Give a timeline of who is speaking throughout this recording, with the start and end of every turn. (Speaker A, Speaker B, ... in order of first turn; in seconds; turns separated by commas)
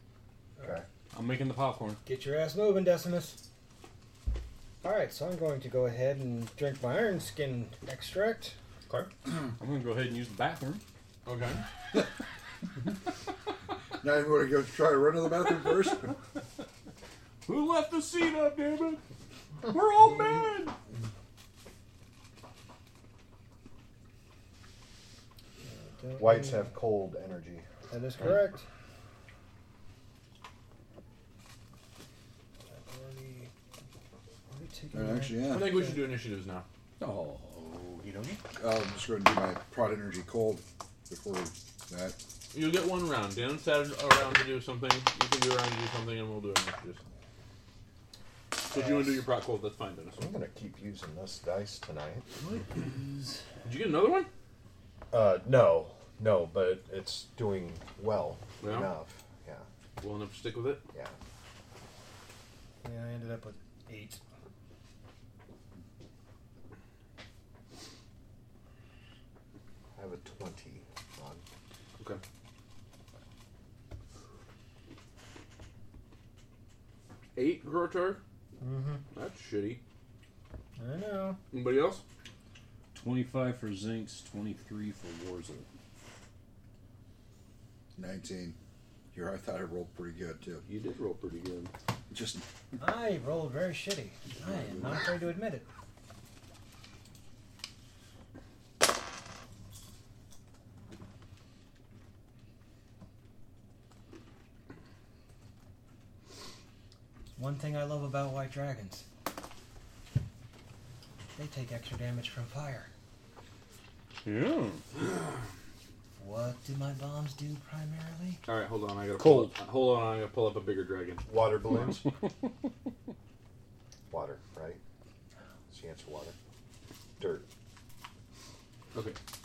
Speaker A: 0.6-0.8, Speaker B: 1.1-2.0, Speaker C: 2.0-3.4, Speaker C: 4.8-8.5, Speaker B: 8.9-10.8, Speaker D: 11.2-11.6, Speaker E: 14.0-16.1, Speaker D: 17.4-19.0, Speaker B: 17.6-18.7, Speaker B: 19.7-20.8, Speaker C: 25.6-26.7, Speaker A: 26.2-27.6, Speaker C: 27.9-28.6, Speaker C: 32.7-33.5, Speaker C: 34.5-36.1, Speaker E: 34.9-35.8, Speaker D: 35.5-36.6, Speaker E: 37.0-37.4, Speaker B: 37.9-38.4, Speaker E: 38.5-42.2, Speaker D: 42.5-47.0, Speaker D: 48.7-50.3, Speaker A: 50.2-52.2, Speaker D: 53.6-54.3, Speaker A: 55.1-59.6, Speaker D: 58.6-58.9, Speaker D: 60.0-60.8, Speaker C: 62.8-64.2, Speaker A: 69.9-71.4, Speaker D: 77.3-78.2, Speaker C: 78.6-79.0, Speaker D: 79.1-79.8, Speaker C: 80.8-81.4, Speaker D: 81.5-82.0, Speaker B: 82.9-85.7, Speaker E: 88.0-88.5, Speaker E: 89.1-90.7, Speaker D: 90.7-91.7, Speaker E: 92.1-92.4, Speaker C: 92.8-95.6, Speaker C: 107.3-109.0, Speaker C: 111.3-112.9, Speaker B: 114.2-114.8, Speaker C: 116.2-118.4, Speaker D: 118.5-121.3, Speaker B: 119.2-119.5, Speaker A: 121.3-122.1, Speaker A: 124.1-124.8, Speaker A: 125.7-126.3, Speaker A: 127.2-127.5